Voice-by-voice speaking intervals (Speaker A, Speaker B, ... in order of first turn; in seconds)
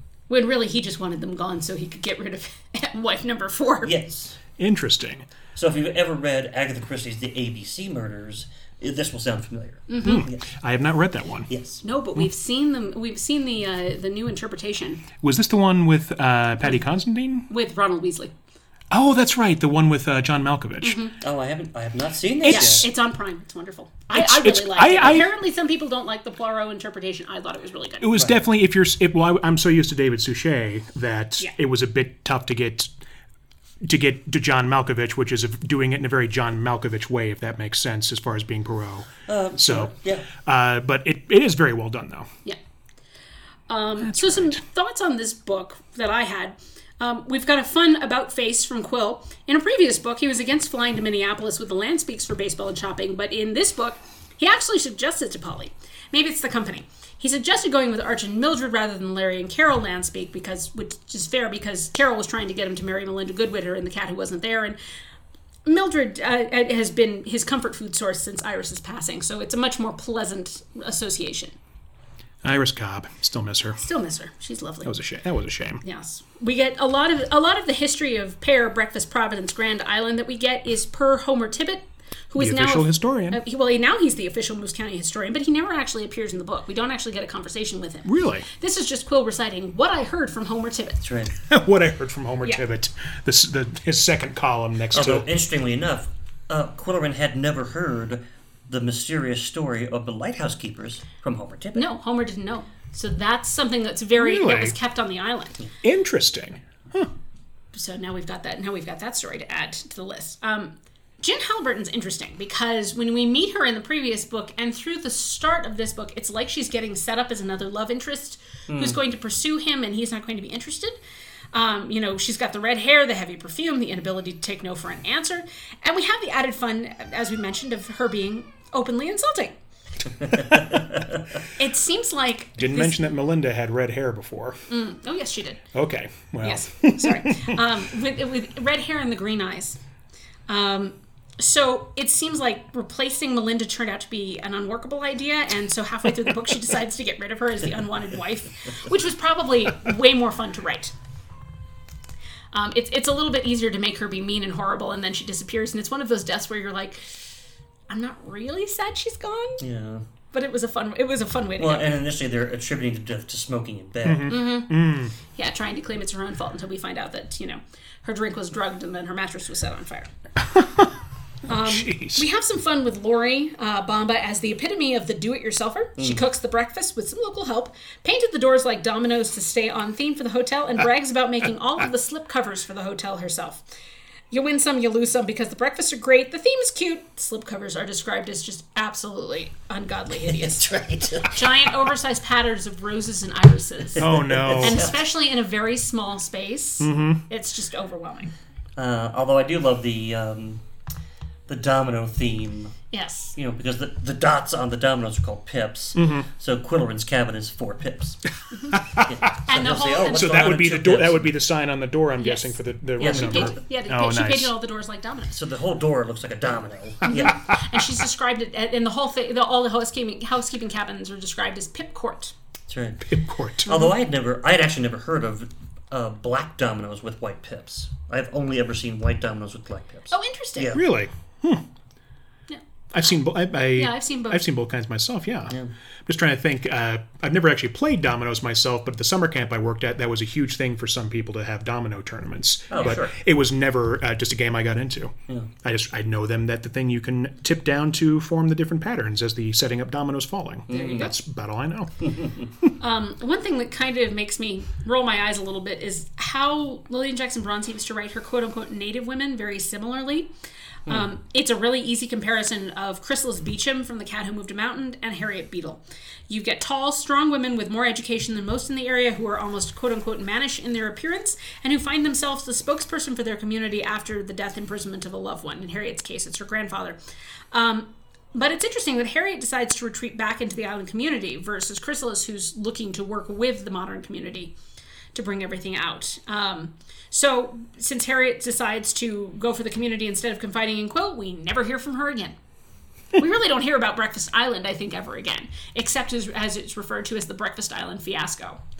Speaker A: 0.3-3.9, 9.9-10.2, 11.8-15.0, 17.5-18.3, 20.8-21.2, 22.5-28.1, 43.7-64.8, 65.7-71.5, 73.8-74.9, 75.8-91.0, 101.7-105.6, 107.7-120.9, 121.5-129.6, 131.6-133.0, 134.7-135.6, 136.4-139.8, 140.5-150.9, 152.5-157.2, 157.9-159.6, 160.3-161.9, 164.3-170.1, 171.5-183.6, 184.3-190.7, 191.2-198.3, 202.9-203.3, 208.5-208.8, 209.4-210.4, 212.2-215.3, 217.1-222.3, 230.1-230.8, 232.5-233.1, 233.7-234.4, 242.7-243.0, 250.7-251.1, 252.8-260.3, 260.9-277.0, 277.5-284.5, 285.1-292.4, 293.1-298.6
Speaker B: 3.8-4.4, 5.5-10.5, 11.5-11.8, 21.2-22.9, 39.3-40.3, 91.0-91.3, 94.9-101.9, 118.7-119.0, 130.2-131.1, 159.6-160.0, 161.6-164.4, 176.0-176.2, 190.2-191.7, 194.0-195.0, 198.8-200.6, 201.5-202.8, 203.3-208.3, 208.8-211.3, 213.0-213.6, 215.3-217.6, 222.7-223.1, 223.6-230.8, 242.7-243.1, 250.7-251.1, 252.0-252.5
Speaker C: 4.6-5.2, 10.0-11.5, 15.2-17.5, 18.9-21.0, 22.4-22.9, 24.1-25.3, 28.0-32.9, 33.8-42.3, 44.0-44.6, 72.4-73.8, 74.8-75.8, 82.4-83.4, 88.0-88.5, 91.5-95.2, 104.2-104.8, 105.8-107.1, 132.6-134.7, 135.7-137.6, 164.0-165.1, 170.4-170.9, 171.5-172.2, 194.0-194.9, 196.8-197.2, 205.9-206.3, 208.7-209.3, 210.0-214.5, 223.1-223.7, 230.7-231.6, 232.9-252.0